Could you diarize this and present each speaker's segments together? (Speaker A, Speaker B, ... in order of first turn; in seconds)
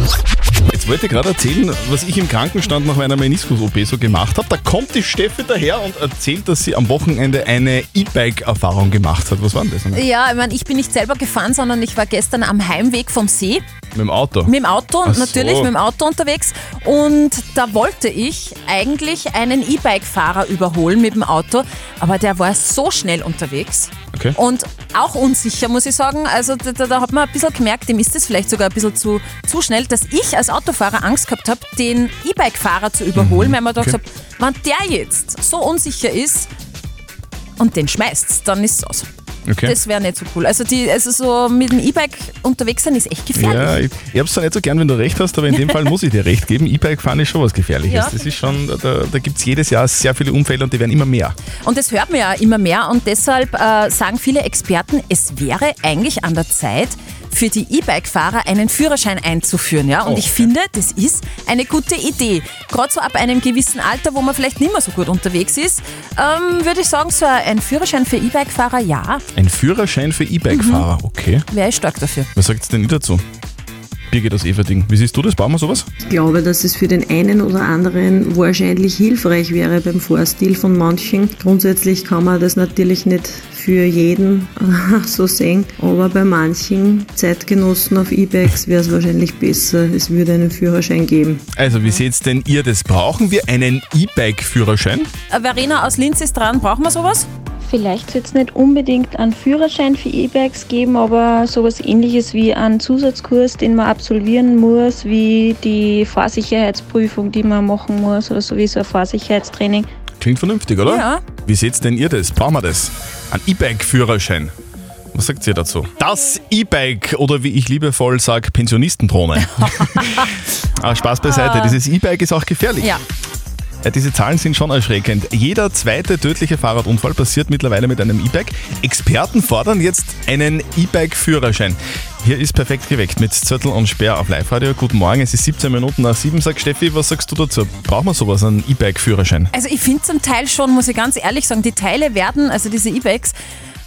Speaker A: 0.7-10.0, 13.9-14.5, 15.0-15.7, 33.1-34.0, 39.5-39.8, 43.3-51.4, 60.0-60.5, 69.3-71.4, 72.3-73.2, 74.1-75.9, 91.5-95.1, 110.2-114.5, 115.1-120.2, 120.8-123.0, 123.8-139.5
Speaker B: 9.9-13.6, 14.4-36.5, 37.6-39.1, 39.6-43.8, 47.9-48.5, 51.6-69.2, 70.5-70.8, 71.5-72.3, 95.3-97.3, 110.8-111.2, 119.5-120.3, 121.2-121.8, 139.5-143.3
Speaker C: 76.0-91.4
Speaker D: 97.7-109.9